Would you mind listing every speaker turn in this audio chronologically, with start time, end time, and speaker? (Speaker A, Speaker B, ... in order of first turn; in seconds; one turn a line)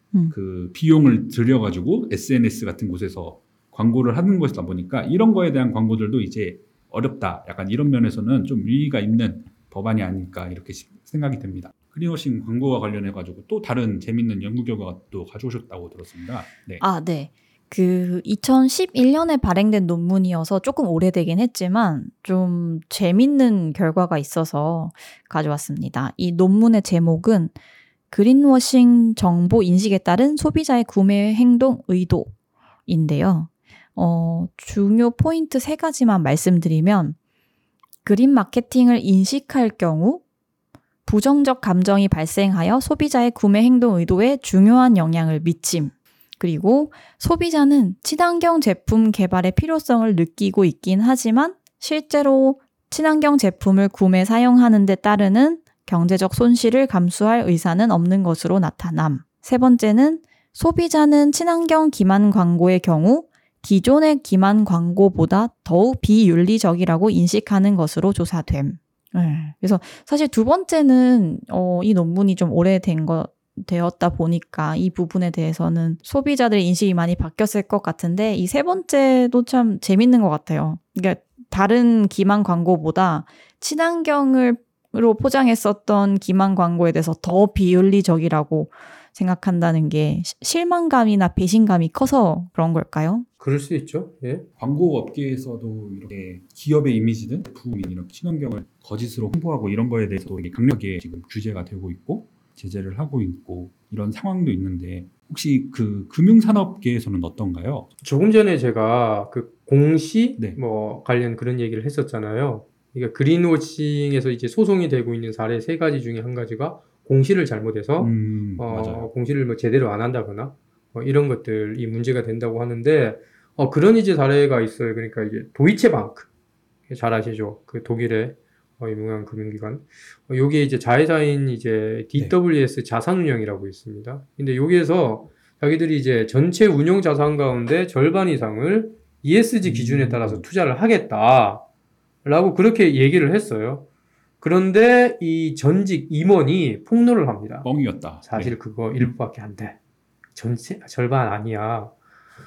Speaker A: 0.3-16.8
Speaker B: 16.8-27.6
Speaker B: 28.1-32.3
Speaker B: 32.9-37.2
Speaker B: 38.0-40.2
Speaker B: 41.0-93.2
Speaker C: 93.4-94.5
Speaker A: 94.6-107.9
Speaker C: 108.0-126.3
Speaker A: 118.0-119.1
Speaker C: 126.9-141.6
Speaker A: 139.6-140.4
Speaker C: 142.2-143.8
Speaker C: 144.4-149.8
Speaker A: 147.6-149.1
Speaker C: 150.3-151.9